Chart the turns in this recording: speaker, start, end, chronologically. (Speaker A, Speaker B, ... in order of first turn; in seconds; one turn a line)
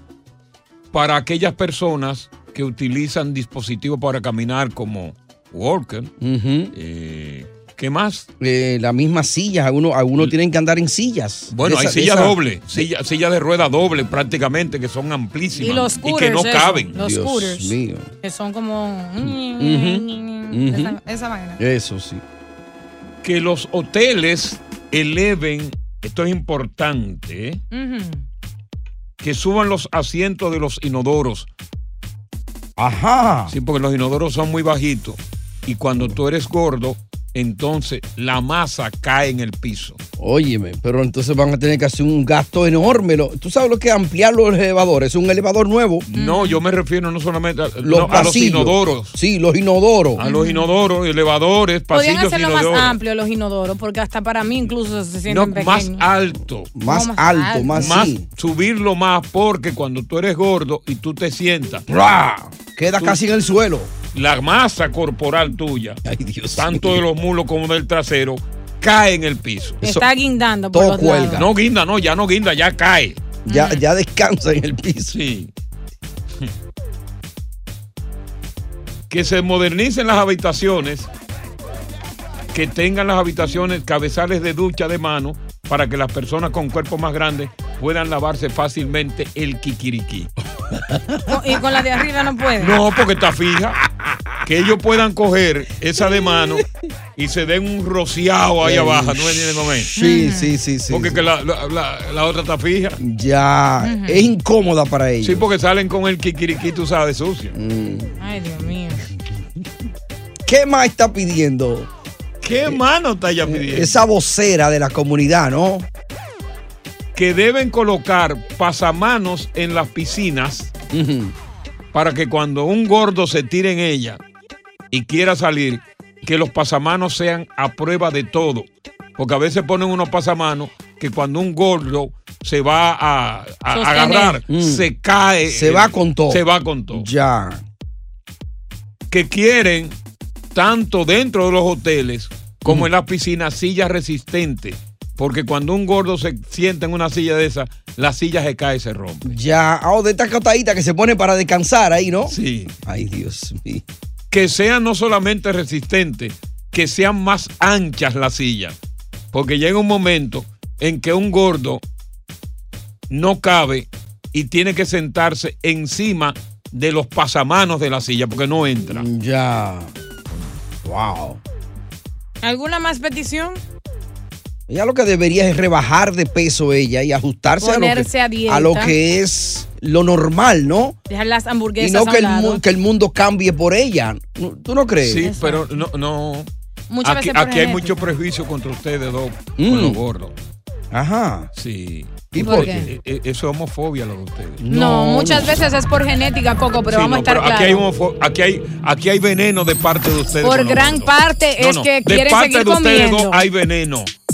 Speaker A: 0.9-6.1
Speaker B: 6.2-6.7
Speaker A: 6.7-8.3
Speaker B: 8.4-12.9
Speaker A: 11.5-16.9
Speaker C: 15.6-21.6
Speaker B: 16.9-18.1
Speaker B: 19.3-21.0
Speaker B: 21.6-22.2
Speaker A: 23.2-27.6
Speaker C: 27.7-28.2
Speaker A: 29.2-31.5
Speaker B: 32.8-33.5
Speaker A: 33.5-40.0
Speaker B: 40.2-46.1
Speaker A: 46.1-49.2
Speaker C: 46.1-46.6
Speaker B: 47.8-50.2
Speaker A: 50.2-53.0
Speaker C: 50.2-50.7
Speaker C: 51.9-56.0
Speaker A: 55.3-56.8
Speaker B: 56.8-58.2
Speaker C: 56.8-58.1
Speaker A: 57.7-61.9
Speaker B: 61.9-63.9
Speaker A: 64.1-66.0
Speaker B: 66.0-67.0
Speaker A: 66.6-69.8
Speaker C: 69.8-71.4
Speaker B: 70.7-71.5
Speaker A: 71.3-73.3
Speaker B: 73.5-75.2
Speaker C: 73.5-73.8
Speaker A: 75.1-75.5
Speaker A: 79.1-81.1
Speaker A: 82.5-90.3
Speaker B: 90.8-91.3
Speaker C: 91.3-92.8
Speaker A: 92.6-93.8
Speaker A: 94.4-99.9
Speaker B: 98.6-101.2
Speaker C: 100.0-100.6
Speaker A: 100.9-103.0
Speaker B: 103.0-105.5
Speaker C: 103.8-104.3
Speaker A: 105.2-107.6
Speaker B: 107.5-108.2
Speaker C: 108.2-109.0
Speaker B: 110.5-111.9
Speaker A: 112.4-114.0
Speaker B: 113.5-115.9
Speaker A: 117.1-120.7
Speaker B: 120.9-121.3
Speaker A: 121.9-124.2
Speaker A: 124.9-137.1
Speaker C: 133.7-134.4
Speaker B: 134.5-134.9
Speaker B: 135.5-137.6
Speaker A: 139.1-140.0
Speaker A: 140.5-149.4
Speaker B: 149.2-153.8
Speaker A: 152.3-152.8
Speaker A: 154.3-158.8
Speaker A: 159.3-161.8
Speaker A: 163.1-169.1
Speaker B: 168.9-169.9
Speaker B: 170.8-171.4
Speaker C: 172.4-173.6
Speaker B: 174.7-181.0
Speaker C: 177.6-178.9
Speaker C: 181.1-182.6
Speaker B: 181.8-185.3
Speaker A: 185.0-186.5
Speaker C: 185.2-185.7
Speaker C: 186.9-188.1
Speaker A: 187.0-190.3
Speaker B: 189.6-190.0
Speaker B: 190.9-191.5
Speaker A: 191.5-194.6
Speaker B: 192.3-192.8
Speaker C: 192.4-192.9
Speaker B: 194.6-195.6
Speaker C: 194.7-197.8
Speaker A: 196.9-204.1
Speaker C: 200.4-203.4